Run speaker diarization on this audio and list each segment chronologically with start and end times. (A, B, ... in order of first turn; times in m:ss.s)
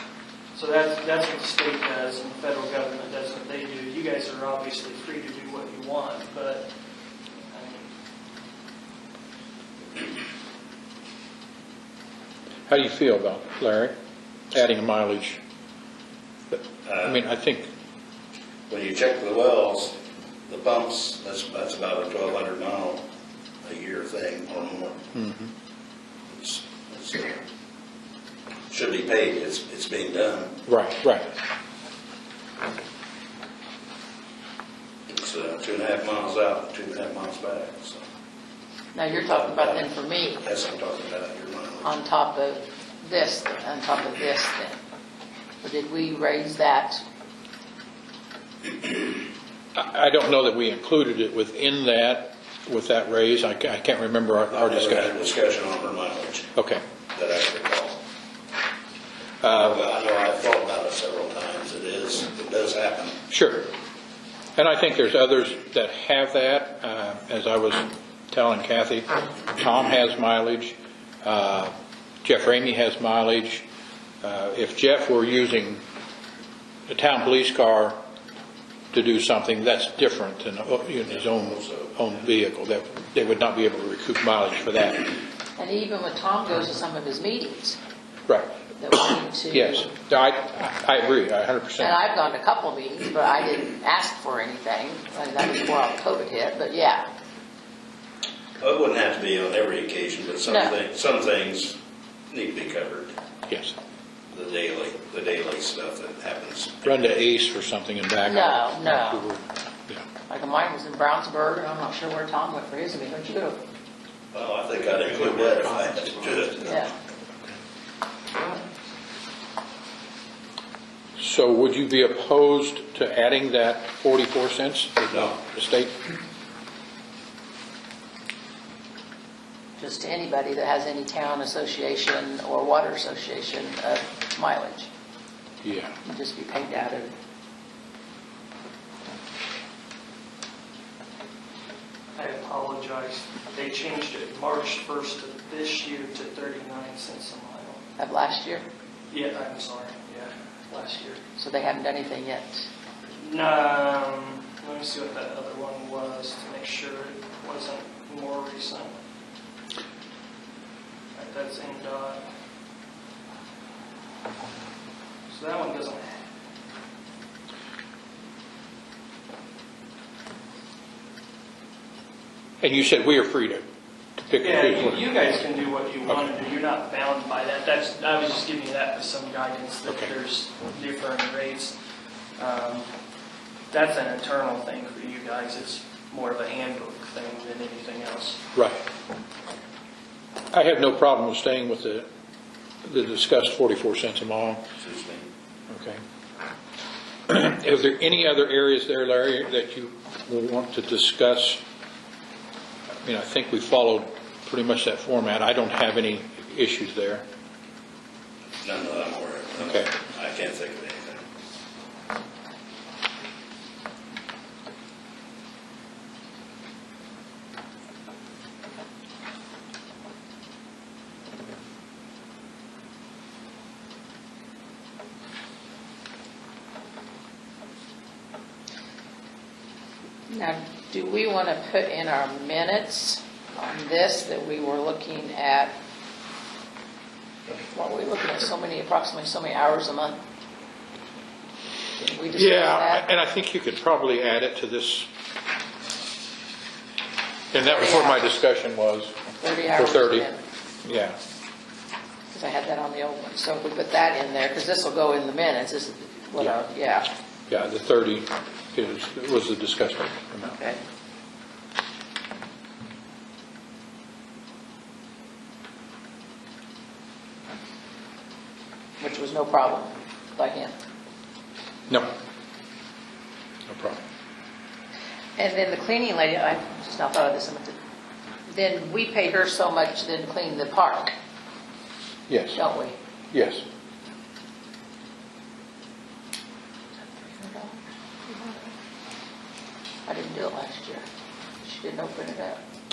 0:00.5-0:06.7 A
0:07.5-0:07.9 A
0:12.7-0:14.0 B
0:14.5-0:15.4 B
0:16.5-0:17.7 B
0:16.9-0:17.2 C
0:18.7-0:20.0 C
0:20.5-0:23.0 C
0:23.6-0:25.0 C
0:25.2-0:25.5 B
0:26.3-0:27.4 C
0:28.7-0:30.6 C
0:30.7-0:31.3 B
0:35.1-0:38.0 C
0:38.9-0:40.4 D
0:39.2-0:42.0 C
0:41.8-0:44.8 D
0:45.6-0:47.0 D
0:49.8-0:55.1 B
0:54.5-0:56.5 C
0:56.6-0:56.8 B
0:57.1-0:58.0 C
0:59.4-0:59.8 B
0:59.5-1:03.2 C
1:03.3-1:03.7 B
1:04.6-1:11.7 B
1:12.2-1:13.6 B
1:14.2-1:15.8 B
1:16.9-1:18.0 B
1:18.9-1:25.1 B
1:21.1-1:22.1 C
1:25.6-1:27.8 D
1:28.3-1:28.6 B
1:28.8-1:29.9 D
1:29.5-1:32.0 B
1:31.8-1:37.1 D
1:38.6-1:41.8 C
1:40.5-1:40.7 D
1:42.3-1:43.1 C
1:43.5-1:43.8 B
1:44.3-1:47.0 C
1:46.8-1:50.0 B
1:48.2-1:49.2 D
1:50.3-1:53.6 D
1:54.3-1:56.9 C
1:56.6-1:56.9 D
1:58.3-1:58.6 A
2:01.2-2:06.0 B
2:09.8-2:14.9 D
2:15.6-2:16.0 B
2:16.0-2:17.1 D
2:22.2-2:27.8 A
2:28.0-2:28.7 D
2:29.1-2:31.2 A
2:31.4-2:32.7 D
2:33.2-2:39.0 A
2:41.1-2:42.3 A
2:45.3-2:46.2 A
2:52.6-2:53.6 B
2:54.2-2:55.3 B
2:54.4-3:01.7 A
3:02.4-3:02.9 A
3:03.7-3:08.4 A
3:08.6-3:08.8 B
3:10.5-3:12.1 B
3:12.8-3:14.6 B
3:14.8-3:15.2 C
3:15.7-3:16.0 B
3:17.3-3:21.6 B
3:23.0-3:27.2 B
3:28.6-3:31.2 C
3:29.6-3:29.9 B
3:50.3-3:55.8 D
3:57.7-4:00.2 D
4:02.0-4:03.1 D
4:02.4-4:05.1 B
4:07.5-4:09.2 B
4:07.6-4:08.4 D
4:09.4-4:10.4 D
4:09.8-4:10.3 B
4:10.8-4:11.2 B
4:12.3-4:17.1 D
4:17.5-4:20.6 B
4:29.0-4:30.7 D
4:33.7-4:34.0 B
4:35.4-4:37.8 D
4:38.5-4:41.1 D
4:42.3-4:42.6 B
4:42.6-4:43.0 D
4:43.3-4:43.6 B
4:47.2-4:48.7 D
4:50.1-4:51.0 D
4:51.6-4:52.6 D